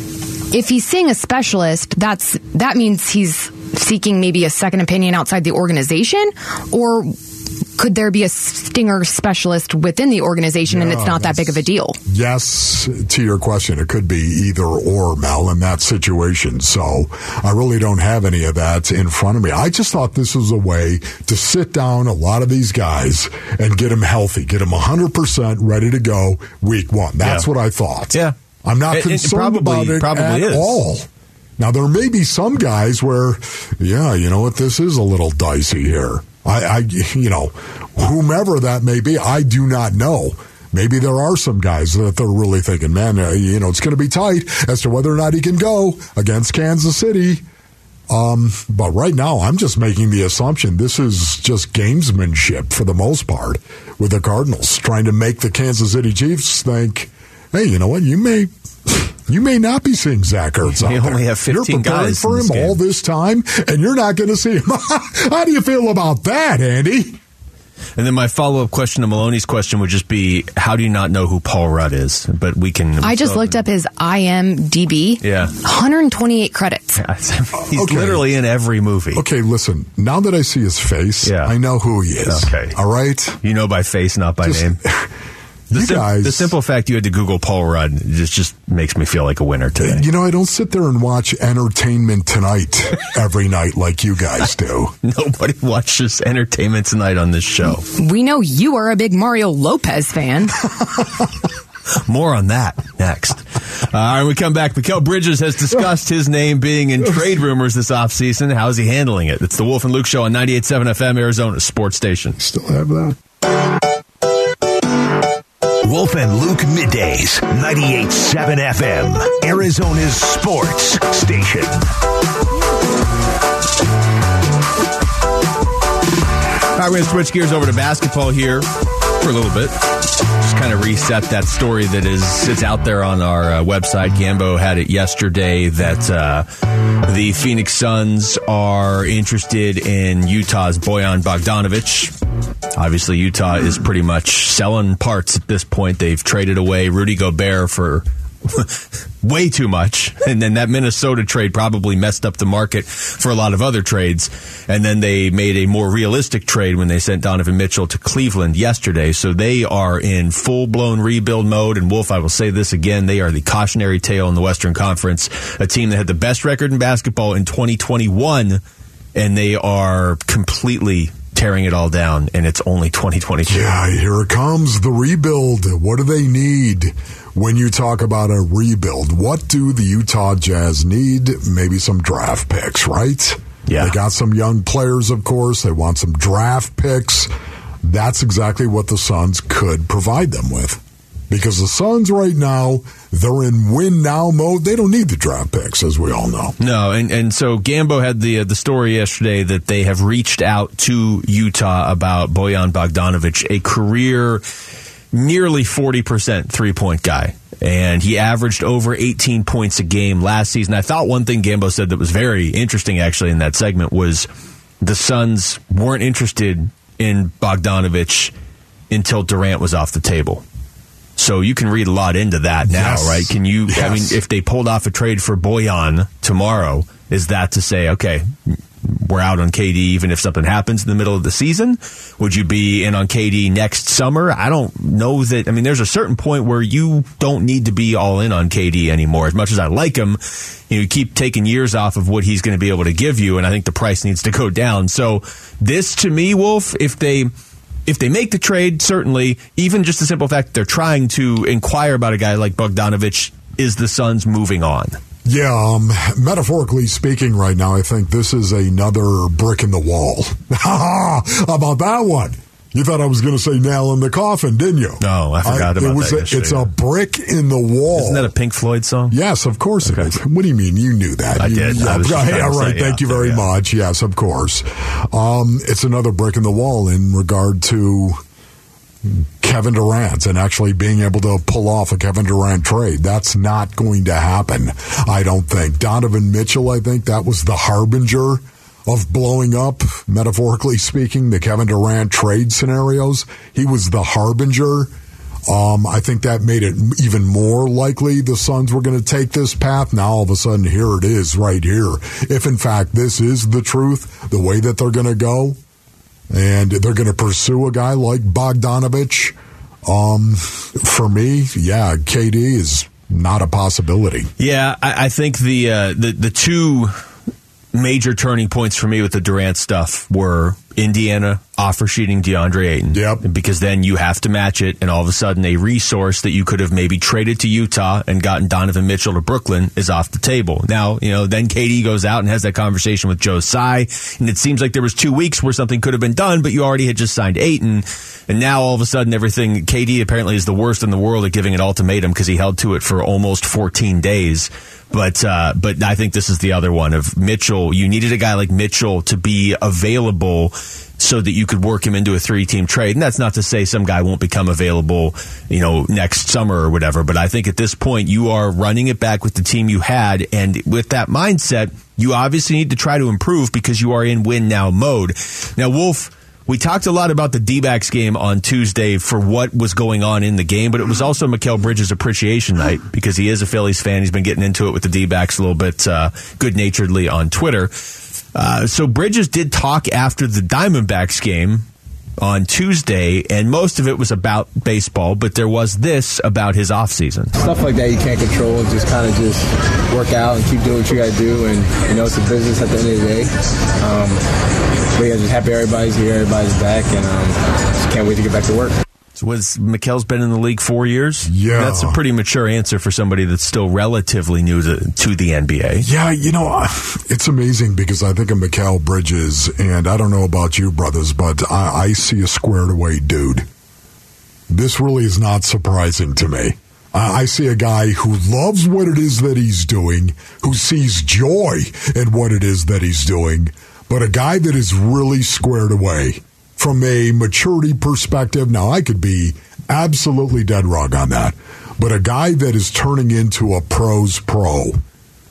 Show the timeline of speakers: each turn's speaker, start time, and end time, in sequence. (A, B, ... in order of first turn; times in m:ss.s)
0:00.5-0:07.2 A
0:07.8-0:12.0 A
0:10.7-0:31.1 B
0:28.9-0:30.8 C
0:31.6-0:47.4 B
0:48.1-1:07.2 B
1:00.7-1:02.8 C
1:08.0-1:13.6 C
1:13.0-1:17.0 A
1:15.2-1:15.6 C
1:17.0-1:19.2 C
1:17.7-1:18.2 B
1:19.1-1:23.4 B
1:21.2-1:21.5 C
1:22.2-1:22.8 C
1:23.4-1:24.8 C
1:24.4-1:25.1 B
1:25.7-1:26.5 B
1:25.7-1:30.0 C
1:29.8-1:35.0 B
1:35.0-1:37.8 C
1:38.0-1:40.6 A
1:42.1-1:52.4 C
1:52.4-1:53.2 B
1:55.8-2:01.8 D
2:06.8-2:08.7 C
2:09.2-2:09.8 C
2:10.4-2:16.5 C
2:17.0-2:22.1 C
2:22.8-2:48.6 C
2:49.2-2:53.7 C
2:53.5-3:07.3 B
3:03.7-3:04.0 C
3:07.8-3:16.6 B
3:16.6-3:24.4 C
3:25.1-3:34.3 C
3:34.8-3:38.3 C
3:38.9-3:40.4 C
3:41.2-3:48.3 C
3:42.7-3:44.2 B
3:48.8-4:07.3 C
4:07.9-4:15.0 C
4:15.2-4:28.3 B
4:25.0-4:26.7 C
4:28.0-4:29.2 C
4:29.1-4:38.2 B
4:29.8-4:30.1 C
4:31.4-4:33.5 C
4:39.1-4:54.9 B
4:55.5-5:05.6 B
5:06.3-5:09.4 B
5:09.9-5:14.3 B
5:14.4-5:17.0 C
5:17.7-6:17.7 C
5:22.9-5:23.2 B
6:18.4-6:21.7 C
6:22.2-6:27.3 C
6:27.4-6:34.2 E
6:35.0-6:38.8 E
6:39.2-6:45.9 C
6:41.3-6:42.0 B
6:45.8-6:53.5 B
6:54.5-7:14.8 B